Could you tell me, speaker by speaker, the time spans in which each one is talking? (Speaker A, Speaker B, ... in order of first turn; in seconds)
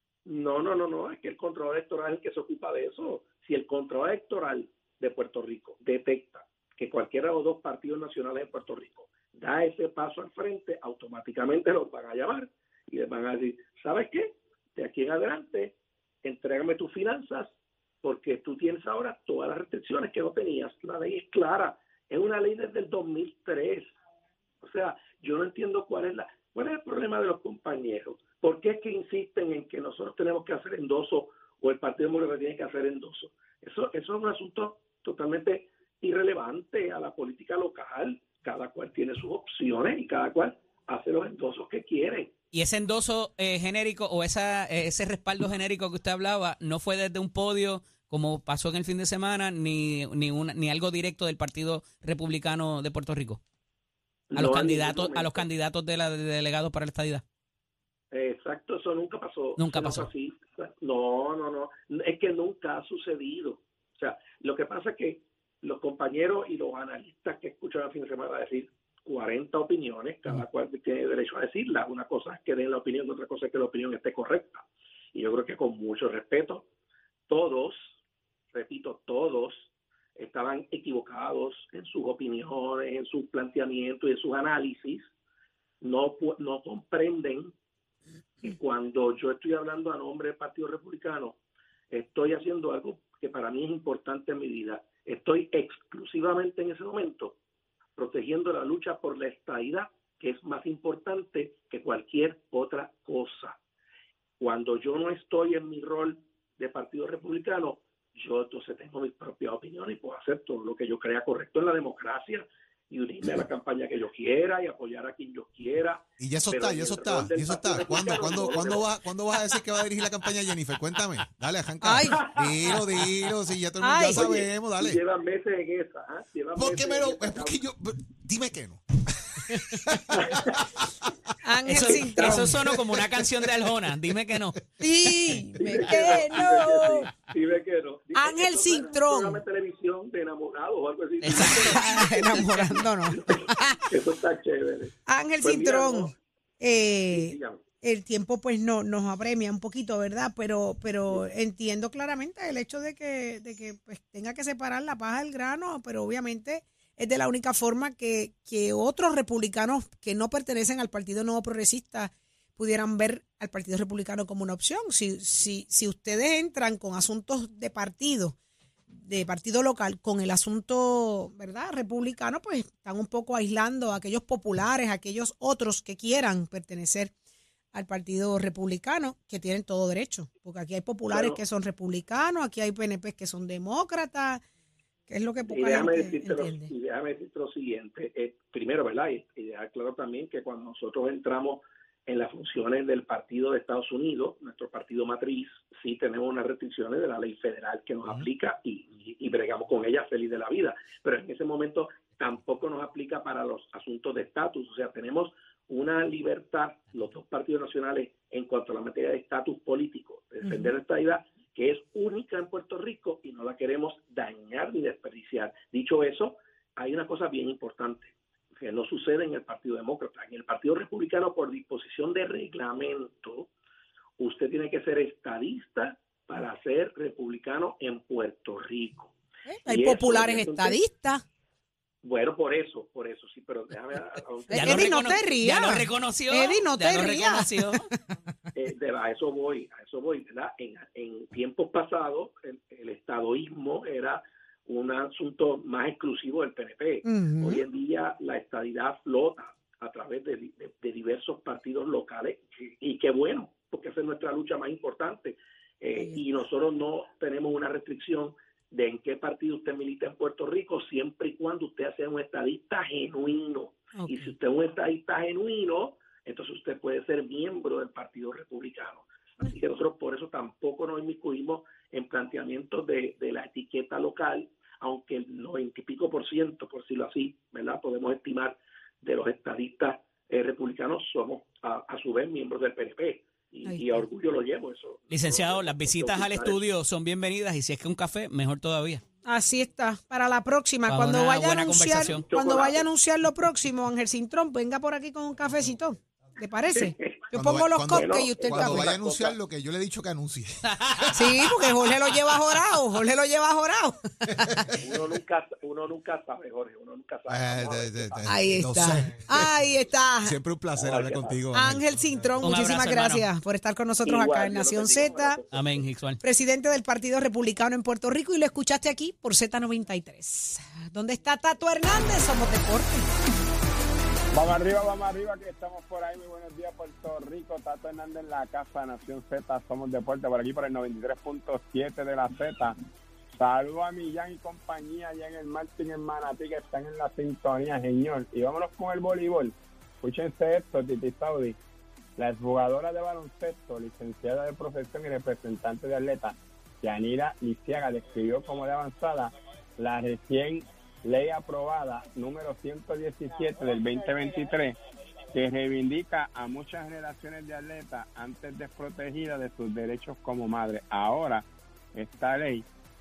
Speaker A: 0.2-23.9, 24.6-42.3, 54.3-55.5, 58.1-76.7, 77.3-77.9, 78.5-85.1, 85.8-87.5, 88.4-91.4, 91.9-97.3, 98.0-103.6, 104.4-118.8, 122.1-122.8, 124.1-127.6, 130.1-130.6, 131.9-132.6, 135.6-146.1, 147.1-147.6, 181.1-181.4, 185.5-223.5, 224.2-229.1, 229.7-230.8, 232.0-235.1, 238.5-286.6, 292.3-292.8, 296.7-299.4, 304.7-308.5, 310.7-311.4, 314.0-315.8
Speaker B: 42.5-53.4, 54.3-57.2, 59.6-60.1, 131.6-134.6, 141.2-141.9, 234.5-237.8, 285.1-289.0, 290.9-292.2, 312.4-313.2, 315.5-316.2
Speaker C: 116.2-125.0, 126.5-131.3, 297.3-302.0, 304.3-304.7, 307.3-309.6, 310.2-312.4
Speaker D: 121.8-122.2, 123.8-124.2, 131.4-132.5, 134.8-137.1, 138.1-139.4, 141.3-143.9, 145.1-168.4, 168.9-177.1, 177.7-184.4, 185.1-186.7, 210.4-210.7, 229.5-231.2, 234.6-237.9, 247.0-247.6, 255.9-256.2, 263.9-264.3, 283.6-284.1, 289.2-298.9, 301.1-304.8, 308.3-310.4, 311.5-315.4, 316.2-323.1
Speaker E: 324.3-332.8, 333.3-341.6, 342.2-354.8, 355.3-362.6